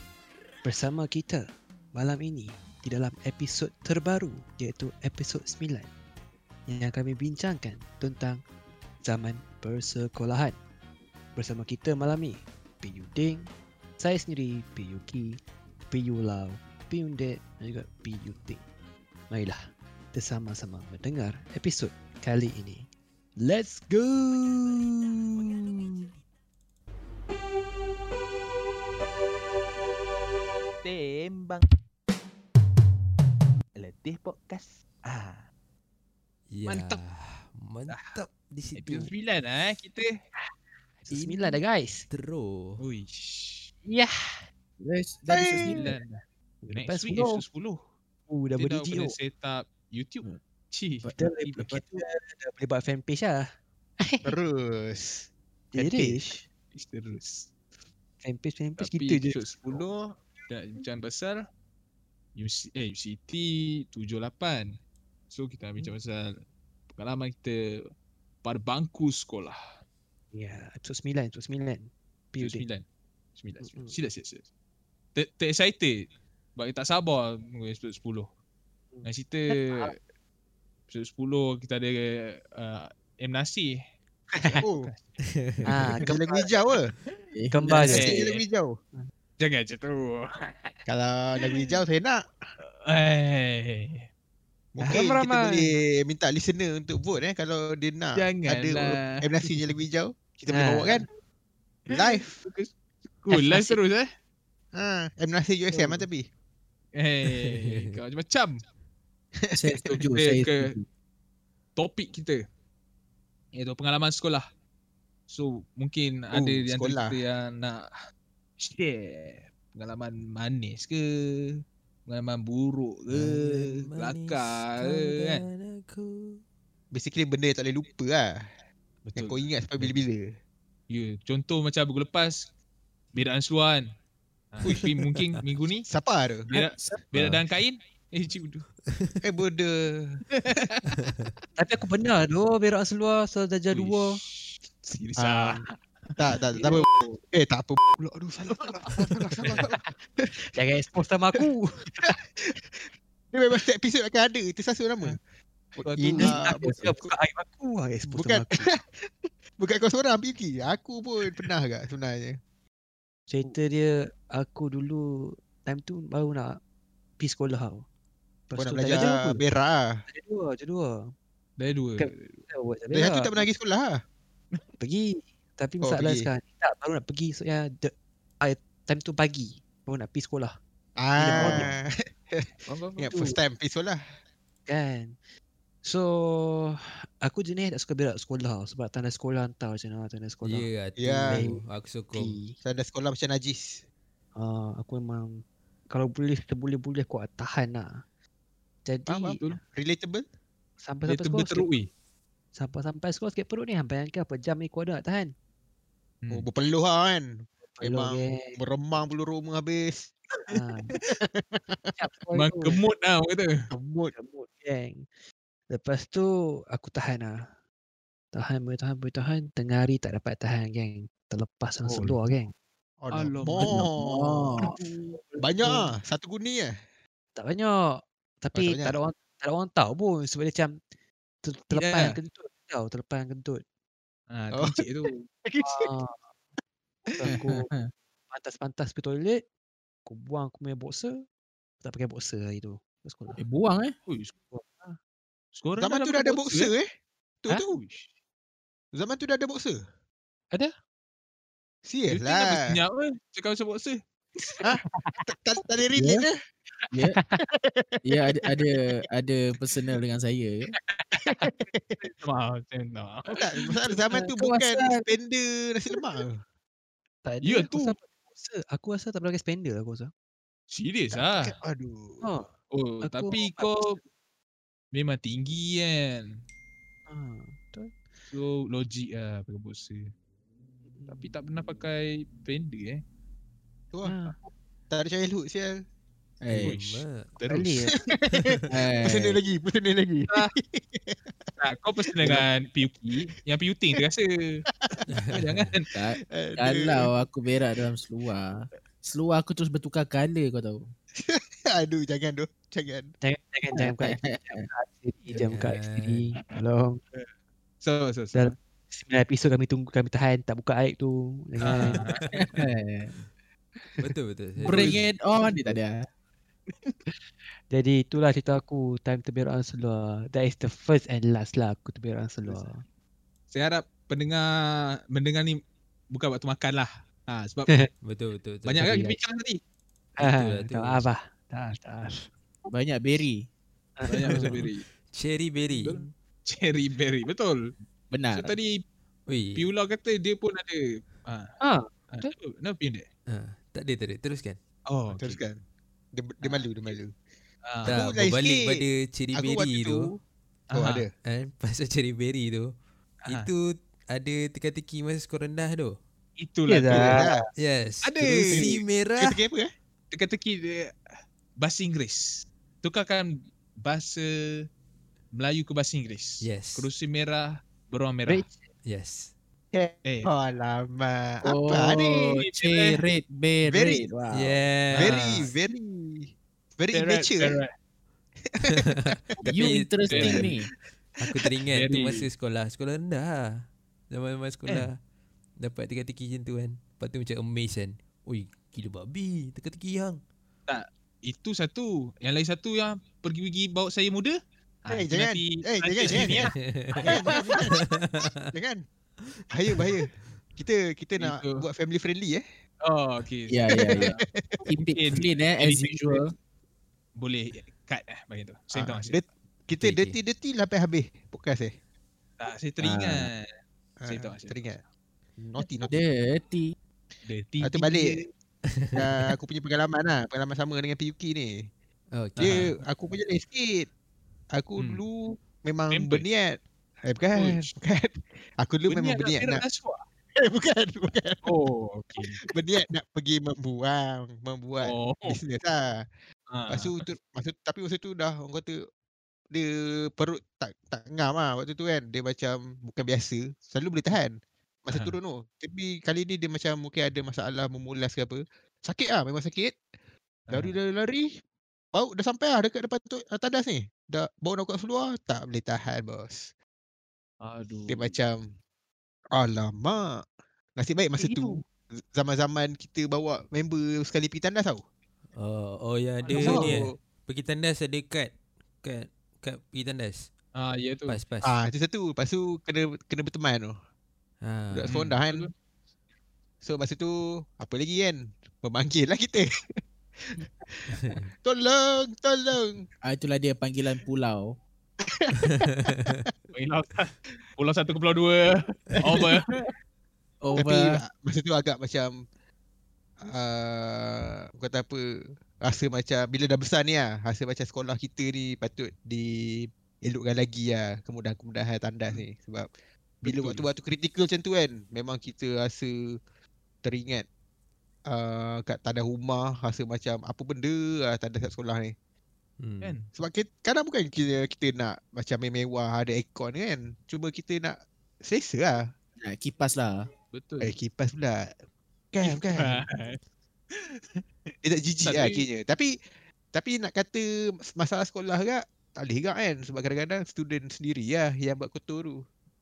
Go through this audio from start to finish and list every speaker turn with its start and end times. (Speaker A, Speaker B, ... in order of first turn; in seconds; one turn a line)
Speaker A: 0.6-5.9
Speaker A: 6.7-8.4
Speaker A: 9.0-10.6
Speaker A: 11.4-18.6
Speaker A: 19.3-19.6
Speaker A: 20.1-22.9
Speaker A: 23.4-25.9
Speaker B: 30.8-31.7
Speaker B: 33.8-35.4
Speaker C: 36.5-39.1
Speaker D: 36.7-37.0
Speaker D: 37.9-38.2
Speaker D: 38.8-40.2
Speaker A: 41.0-42.1
Speaker C: 41.1-41.6
Speaker C: 42.1-42.9
Speaker D: 42.8-43.7
Speaker A: 43.9-44.3
Speaker E: 44.8-45.9
Speaker F: 45.3-45.8
Speaker D: 45.6-47.8
Speaker A: 46.6-47.4
Speaker A: 48.3-49.1
Speaker D: 48.6-51.8
Speaker A: 51.2-54.3
Speaker F: 54.2-55.3
Speaker A: 55.8-56.4
Speaker E: 55.8-56.4
Speaker D: 56.7-57.5
Speaker A: 58.2-59.8
Speaker D: 58.8-59.9
Speaker D: 60.5-61.5
Speaker D: 62.4-64.8
Speaker D: 65.3-66.4
Speaker D: 67.0-67.9
Speaker D: 68.4-69.6
Speaker A: 70.3-72.7
Speaker D: 72.4-72.8
Speaker D: 73.4-74.5
Speaker A: 73.6-73.9
Speaker D: 75.2-78.3
Speaker A: 78.9-80.0
Speaker D: 79.0-80.0
Speaker D: 80.9-83.8
Speaker A: 84.3-84.6
Speaker F: 84.6-84.9
Speaker D: 84.6-85.0
Speaker C: 85.2-85.8
Speaker A: 85.7-86.6
Speaker F: 86.0-86.9
Speaker E: 87.3-88.1
Speaker A: 87.5-88.2
Speaker F: 87.8-88.8
Speaker D: 87.9-88.4
Speaker D: 89.4-90.7
Speaker F: 90.9-92.2
Speaker D: 92.6-94.1
Speaker F: 94.8-101.1
Speaker D: 94.8-95.1
Speaker A: 94.9-95.7
Speaker D: 98.2-99.4
Speaker A: 100.5-101.1
Speaker F: 101.9-102.4
Speaker D: 102.2-104.1
Speaker A: 103.3-103.8
Speaker F: 104.7-106.3
Speaker D: 107.0-108.6
Speaker C: 107.5-108.0
Speaker F: 109.4-109.8
Speaker E: 109.5-110.8
Speaker D: 109.9-110.7
Speaker D: 111.8-112.4
Speaker D: 113.5-114.5
Speaker D: 115.3-117.9
Speaker F: 116.3-117.2
Speaker D: 118.6-125.4
Speaker C: 123.1-126.4
Speaker F: 126.9-128.4
Speaker D: 129.1-130.0
Speaker F: 129.2-130.3
Speaker D: 130.9-132.5
Speaker D: 133.1-133.9
Speaker D: 134.5-135.9
Speaker F: 135.9-136.5
Speaker D: 136.5-138.7
Speaker E: 136.6-137.4
Speaker C: 138.9-139.2
Speaker F: 139.2-140.2
Speaker D: 140.4-140.9
Speaker C: 140.9-141.3
Speaker A: 141.6-144.2
Speaker D: 143.7-145.6
Speaker A: 145.2-145.7
Speaker F: 146.2-150.3
Speaker D: 146.7-147.1
Speaker D: 149.4-149.7
Speaker A: 149.5-150.0
Speaker A: 150.5-152.2
Speaker F: 152.0-155.2
Speaker D: 155.8-156.8
Speaker F: 155.8-157.0
Speaker A: 156.1-158.7
Speaker F: 158.1-162.4
Speaker A: 163.3-166.6
Speaker A: 167.2-167.9
Speaker A: 168.5-169.4
Speaker F: 168.6-170.0
Speaker A: 170.1-171.1
Speaker D: 171.6-172.4
Speaker A: 172.0-173.4
Speaker F: 172.9-174.0
Speaker A: 174.8-180.6
Speaker F: 175.8-176.3
Speaker F: 181.0-184.0
Speaker A: 181.2-181.7
Speaker D: 181.4-181.7
Speaker D: 182.7-183.4
Speaker A: 184.7-185.2
Speaker A: 185.8-190.7
Speaker C: 190.4-192.5
Speaker F: 191.0-191.5
Speaker A: 191.3-191.6
Speaker A: 192.1-192.6
Speaker F: 192.6-193.8
Speaker A: 194.4-198.0
Speaker A: 198.8-199.6
Speaker F: 199.1-200.2
Speaker A: 200.8-201.7
Speaker D: 201.1-201.9
Speaker A: 202.5-205.3
Speaker D: 206.2-206.5
Speaker F: 206.3-210.1
Speaker A: 207.8-208.6
Speaker A: 210.5-211.0
Speaker F: 210.9-211.9
Speaker A: 212.0-212.8
Speaker D: 212.3-213.6
Speaker F: 213.7-214.1
Speaker A: 214.1-215.1
Speaker A: 215.7-217.4
Speaker A: 218.3-222.5
Speaker D: 221.9-222.2
Speaker F: 223.0-224.5
Speaker D: 223.1-223.9
Speaker E: 223.6-224.8
Speaker A: 224.6-225.9
Speaker F: 225.4-226.7
Speaker A: 227.4-230.8
Speaker F: 228.5-229.0
Speaker A: 231.4-233.6
Speaker D: 231.7-232.2
Speaker D: 234.3-235.2
Speaker F: 234.5-234.8
Speaker F: 235.4-235.9
Speaker A: 235.6-236.3
Speaker A: 237.1-237.7
Speaker E: 237.2-237.9
Speaker A: 238.3-239.4
Speaker A: 240.1-241.2
Speaker A: 241.8-243.4
Speaker E: 243.4-243.9
Speaker D: 244.1-244.3
Speaker A: 244.5-245.0
Speaker D: 245.6-246.7
Speaker F: 245.8-246.9
Speaker F: 247.4-247.8
Speaker D: 247.7-248.1
Speaker F: 248.9-249.8
Speaker F: 251.9-252.8
Speaker D: 252.1-254.0
Speaker A: 254.6-255.3
Speaker F: 254.6-256.4
Speaker E: 256.0-256.3
Speaker A: 257.2-257.4
Speaker F: 257.6-258.0
Speaker E: 258.1-260.7
Speaker A: 261.1-261.5
Speaker F: 261.2-262.2
Speaker D: 262.2-263.3
Speaker F: 263.3-266.4
Speaker E: 264.1-265.1
Speaker A: 267.2-270.1
Speaker D: 267.4-268.0
Speaker D: 270.7-271.6
Speaker F: 271.1-272.2
Speaker A: 272.2-272.5
Speaker D: 272.7-274.0
Speaker A: 273.0-274.0
Speaker D: 274.9-276.4
Speaker A: 277.1-278.0
Speaker D: 278.3-280.1
Speaker A: 280.9-281.3
Speaker D: 281.1-283.0
Speaker A: 284.0-284.4
Speaker F: 284.9-285.8
Speaker E: 286.4-286.8
Speaker C: 286.5-287.7
Speaker D: 286.6-287.8
Speaker A: 287.5-288.0
Speaker F: 288.1-291.5
Speaker C: 288.3-288.7
Speaker E: 288.7-289.4
Speaker D: 291.6-294.6
Speaker C: 295.1-295.7
Speaker D: 295.3-295.9
Speaker E: 295.9-300.8
Speaker F: 296.4-297.1
Speaker F: 301.2-303.1
Speaker A: 303.2-307.0
Speaker E: 303.8-304.6
Speaker C: 305.5-306.3
Speaker D: 307.8-308.5
Speaker A: 308.3-312.0
Speaker D: 311.6-312.2
Speaker C: 311.8-312.5
Speaker E: 312.3-313.1
Speaker C: 314.0-315.1
Speaker E: 314.6-316.0
Speaker A: 317.7-322.8
Speaker D: 323.5-325.6
Speaker D: 326.1-327.8
Speaker C: 328.0-329.1
Speaker D: 328.6-329.6
Speaker A: 328.8-329.2
Speaker C: 330.2-331.1
Speaker A: 330.2-332.3
Speaker E: 332.7-333.4
Speaker A: 334.0-334.5
Speaker D: 334.1-334.9
Speaker E: 334.1-334.6
Speaker C: 335.1-336.1
Speaker D: 335.7-337.7
Speaker E: 338.1-338.6
Speaker D: 338.4-338.8
Speaker C: 339.3-339.7
Speaker D: 339.6-341.5
Speaker A: 341.6-342.3
Speaker D: 342.1-343.1
Speaker C: 343.3-344.6
Speaker D: 344.9-345.4
Speaker F: 345.1-345.6
Speaker F: 346.1-347.1
Speaker D: 346.4-347.0
Speaker D: 347.7-348.1
Speaker C: 347.9-350.1
Speaker F: 347.9-350.1
Speaker F: 350.7-351.1
Speaker D: 350.7-351.1
Speaker C: 351.2-352.7
Speaker C: 353.3-356.0
Speaker D: 356.4-357.3
Speaker A: 356.7-357.4
Speaker F: 356.9-357.5
Speaker C: 357.6-359.4
Speaker D: 358.0-358.8
Speaker F: 358.6-359.7
Speaker D: 360.1-360.9
Speaker D: 361.6-364.6
Speaker D: 365.4-368.5
Speaker C: 366.4-366.9
Speaker A: 368.3-368.7
Speaker C: 368.9-369.3
Speaker F: 369.7-372.2
Speaker E: 371.4-374.6
Speaker D: 372.2-373.0
Speaker F: 373.7-374.0
Speaker C: 374.3-375.4
Speaker D: 374.9-375.5
Speaker F: 375.0-377.6
Speaker D: 376.9-377.7
Speaker F: 378.5-379.5
Speaker C: 378.7-380.5
Speaker E: 379.5-380.6
Speaker D: 380.1-380.5
Speaker C: 381.2-385.0
Speaker D: 381.7-382.3
Speaker C: 385.6-390.2
Speaker D: 390.7-397.4
Speaker F: 394.9-397.9
Speaker C: 396.1-398.5
Speaker F: 398.5-398.8
Speaker C: 399.3-400.0
Speaker F: 399.5-402.4
Speaker D: 401.2-401.6
Speaker D: 402.9-404.2
Speaker E: 403.5-404.1
Speaker F: 403.7-404.6
Speaker E: 404.7-406.3
Speaker D: 404.8-406.3
Speaker D: 407.2-409.1
Speaker F: 408.8-411.7
Speaker C: 409.8-410.2
Speaker D: 412.4-413.4
Speaker E: 412.8-413.3
Speaker F: 414.0-414.8
Speaker D: 414.1-414.7
Speaker F: 415.4-415.9
Speaker E: 415.9-416.7
Speaker D: 417.2-418.3
Speaker F: 417.6-418.2
Speaker C: 418.7-419.1
Speaker F: 418.9-421.7
Speaker C: 422.1-422.8
Speaker D: 422.4-422.8
Speaker F: 422.4-423.9
Speaker F: 424.6-429.6
Speaker D: 424.8-425.0
Speaker D: 425.9-426.2
Speaker D: 427.4-427.7
Speaker D: 428.9-430.1
Speaker F: 430.4-431.6
Speaker D: 431.4-432.4
Speaker F: 432.4-436.0
Speaker D: 434.8-435.4
Speaker D: 436.5-437.0
Speaker F: 436.7-438.8
Speaker F: 439.5-449.8
Speaker D: 444.9-445.2
Speaker F: 450.5-451.3
Speaker D: 450.5-450.8
Speaker F: 451.9-456.5
Speaker D: 457.4-458.2
Speaker F: 457.9-458.5
Speaker F: 459.4-460.2
Speaker F: 460.8-464.8
Speaker D: 461.2-461.6
Speaker C: 465.3-470.3
Speaker D: 466.2-466.8
Speaker F: 466.3-466.9
Speaker D: 470.6-471.2
Speaker C: 471.1-471.6
Speaker F: 471.4-473.8
Speaker C: 474.4-475.0
Speaker F: 474.7-475.5
Speaker D: 474.9-475.5
Speaker F: 476.6-479.6
Speaker F: 480.3-482.9
Speaker C: 480.9-481.3
Speaker E: 483.0-484.5
Speaker F: 485.1-486.2
Speaker C: 485.4-486.3
Speaker D: 486.5-489.5
Speaker E: 490.4-491.0
Speaker F: 490.6-492.1
Speaker F: 493.2-495.0
Speaker F: 495.6-502.7
Speaker D: 503.2-503.7
Speaker F: 503.2-506.2
Speaker F: 506.8-507.2
Speaker F: 508.1-511.9
Speaker C: 512.6-513.0
Speaker D: 512.8-513.1
Speaker F: 513.1-518.9
Speaker E: 519.2-520.0
Speaker D: 520.3-520.7
Speaker F: 520.6-521.5
Speaker F: 522.1-522.9
Speaker D: 522.2-523.2
Speaker D: 523.8-524.1
Speaker F: 524.6-525.9
Speaker D: 525.0-525.4
Speaker F: 526.5-532.2